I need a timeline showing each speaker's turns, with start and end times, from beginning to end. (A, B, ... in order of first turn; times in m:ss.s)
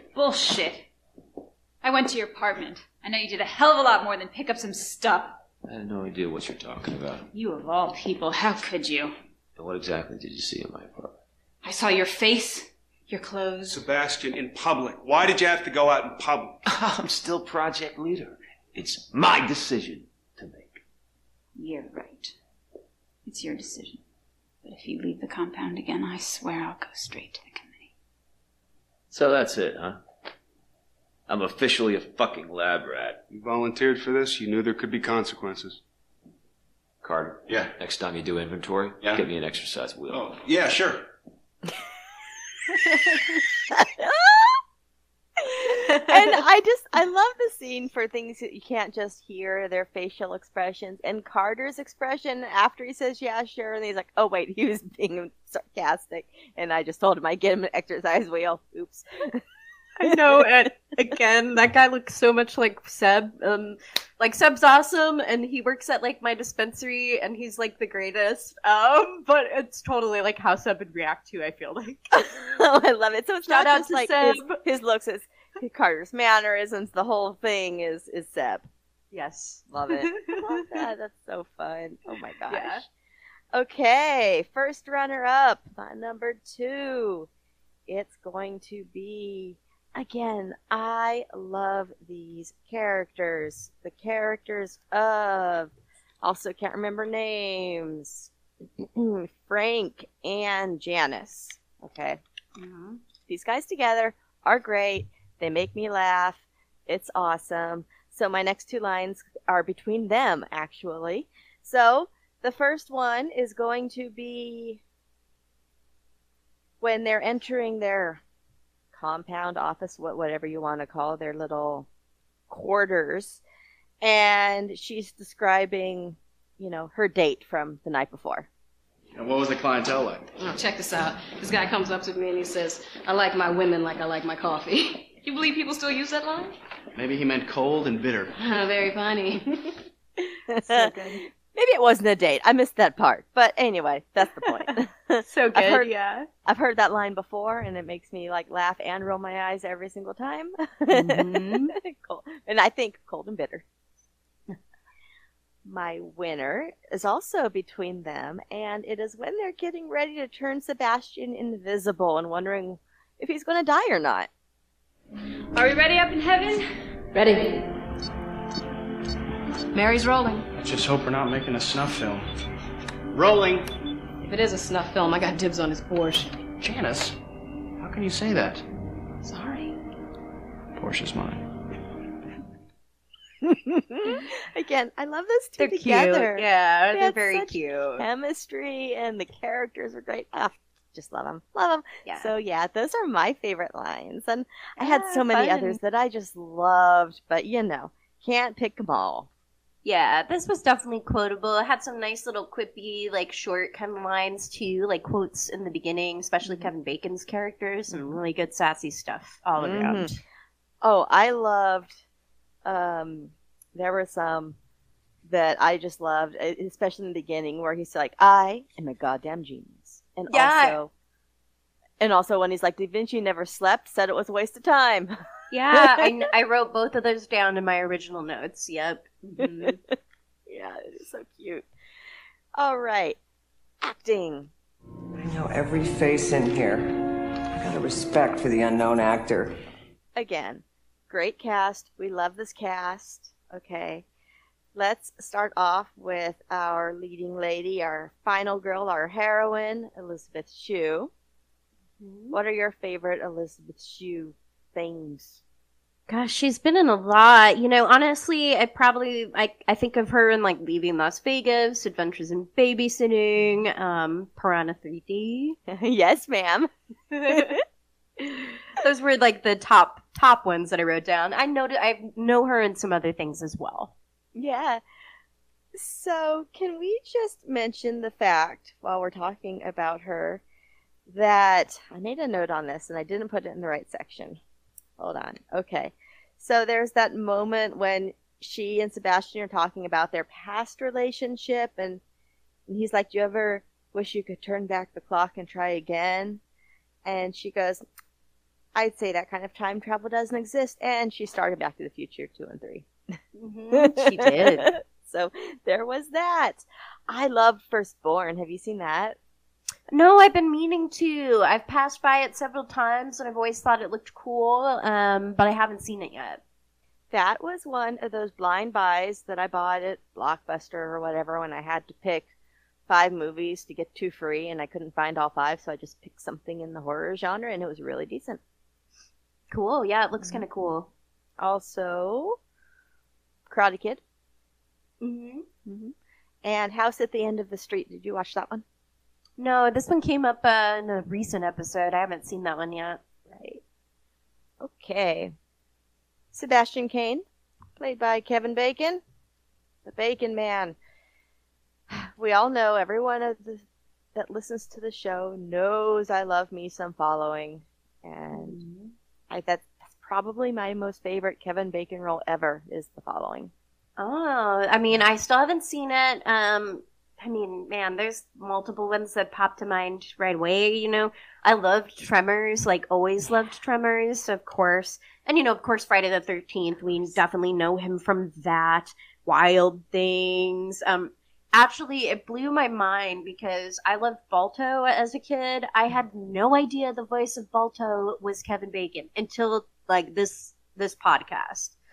0:00.1-0:00.9 A
0:01.8-0:05.4 A
0:05.6-0:07.3 B
0:07.3-0:09.1 A
0:09.6-0:11.2 B
0:11.6-0:13.8 A
0:13.7-0:16.6 C
0:16.7-0:20.8 B
0:21.6-0:22.4 A
0:23.2-0:24.0 A
0:24.6-0:27.9 A
0:29.1-0:30.0 B
0:31.3-0:33.2 B
0:33.3-0:35.8 C
0:37.0-0:40.3 B
0:40.1-0:40.8 C
0:43.8-0:44.5 D
0:45.4-0:59.4 D
1:00.0-1:12.4 E
1:00.1-1:00.5 D
1:12.2-1:18.7 D
1:13.5-1:14.6 E
1:19.1-1:20.6 E
1:19.7-1:22.9 D
1:22.5-1:22.8 E
1:23.5-1:27.3 D
1:27.9-1:42.2 D
1:42.6-1:43.0 E
1:43.3-1:54.8 D
1:56.8-1:58.2 D
1:58.9-2:01.9 D
2:02.5-2:03.4 D
2:04.0-2:08.5 D
2:09.2-2:10.4 F
2:10.4-2:16.6 G
2:17.0-2:18.4 F
2:18.3-2:19.8 G
2:20.5-2:21.0 D
2:20.7-2:21.2 G
2:21.5-2:25.9 D
2:25.3-2:26.3 E
2:26.4-2:33.6 D
2:30.9-2:31.7 E
2:35.6-2:44.3 D
2:47.1-2:47.6 G
2:49.7-2:50.5 G
2:50.6-2:52.3 F
2:53.1-2:53.7 F
2:54.2-2:56.4 G
2:56.6-2:57.2 F
2:57.8-2:58.7 F
2:59.3-2:59.8 G
3:00.8-3:01.4 F
3:03.4-3:19.3 D
3:05.6-3:08.0 E
3:12.1-3:12.3 E
3:14.8-3:15.8 E
3:19.8-3:30.2 E
3:26.4-3:26.7 D
3:27.9-3:28.2 D
3:29.6-3:30.1 D
3:30.8-3:32.0 D
3:32.6-3:34.6 D
3:35.2-3:40.9 D
3:40.3-3:40.8 E
3:42.0-3:45.1 D
3:45.5-3:49.8 E
3:45.7-3:46.2 D
3:49.4-3:51.7 D
3:52.6-3:53.2 D
3:53.8-3:54.5 D
3:55.2-3:56.8 H
3:57.6-3:59.5 H
4:00.2-4:04.1 D
4:04.8-4:11.1 D
4:12.0-4:12.4 E
4:12.3-4:15.4 D
4:16.1-4:25.6 E
4:25.7-4:26.7 D
4:27.1-4:27.6 E
4:27.3-4:27.6 D
4:28.2-4:28.6 D
4:28.8-4:33.9 E
4:34.3-4:34.8 D
4:35.7-4:40.4 D
4:41.1-4:44.4 D
4:45.0-4:52.0 D
4:52.7-4:56.4 D
4:57.0-4:57.8 D
4:58.8-5:02.9 D
5:03.4-5:04.7 E
5:03.7-5:09.2 D
5:09.9-5:16.4 E
5:17.1-5:22.3 D
5:22.9-5:28.4 D
5:29.5-5:30.9 E
5:30.2-5:30.5 D
5:31.4-5:32.4 D
5:33.5-5:34.0 D
5:35.0-5:35.5 E
5:35.7-5:38.6 D
5:39.4-5:43.0 E
5:43.3-5:43.6 D
5:44.6-5:45.3 D
5:46.3-5:47.2 D
5:47.8-5:49.0 D
5:49.8-5:50.8 D
5:51.9-5:58.6 D
5:58.3-5:58.9 E
5:59.3-6:03.5 D
6:04.0-6:31.8 E